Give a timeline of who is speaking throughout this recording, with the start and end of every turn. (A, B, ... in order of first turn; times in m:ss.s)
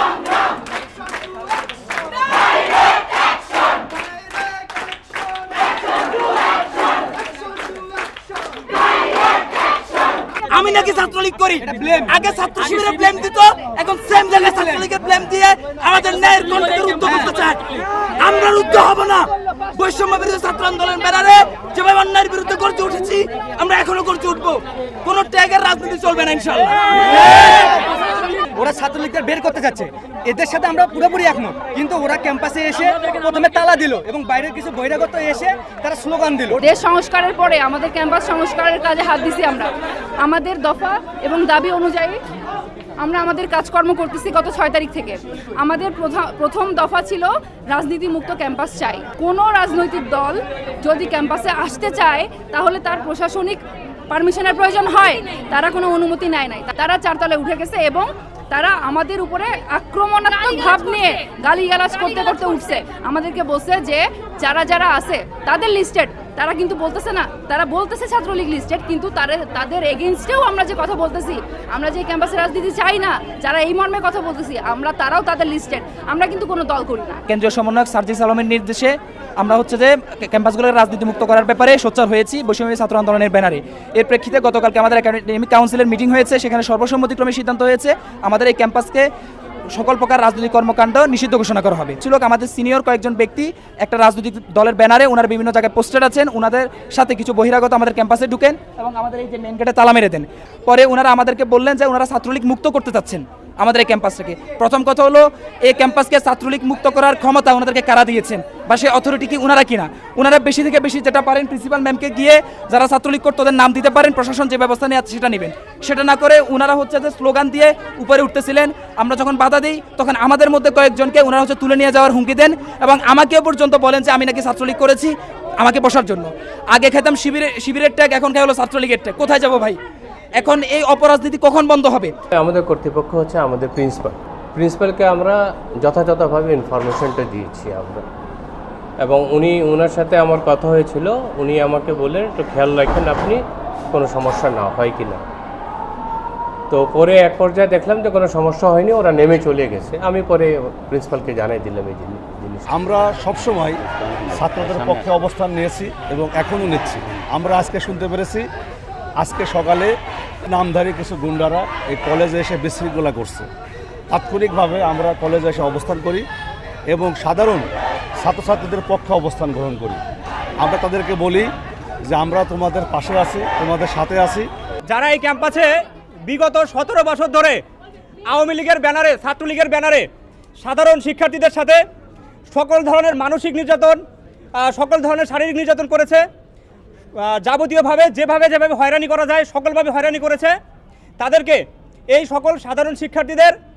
0:10.5-0:17.7 A
0:11.6-0:12.2 B
0:17.0-0:17.3 B
0:18.2-0:27.8 A
0:28.5-0:36.6 B
0:36.6-0:42.2 C
0:43.0-1:17.2 C
1:17.3-1:29.1 A
1:29.7-2:09.8 A
2:10.4-2:12.1 A
2:12.3-2:18.1 D
2:19.0-2:25.3 D
2:26.7-2:32.8 D
2:32.7-2:38.4 E
2:39.2-2:39.9 E
2:40.5-2:43.5 E
2:44.1-2:46.2 E
2:46.9-2:47.7 E
2:48.2-2:50.0 E
2:50.6-2:51.5 E
2:52.0-2:54.5 E
2:54.9-2:55.7 F
2:56.3-2:57.6 F
2:58.3-3:00.1 F
3:00.6-3:01.8 F
3:02.5-3:04.0 F
3:04.6-3:06.2 F
3:07.2-3:10.6 F
3:11.2-3:13.6 F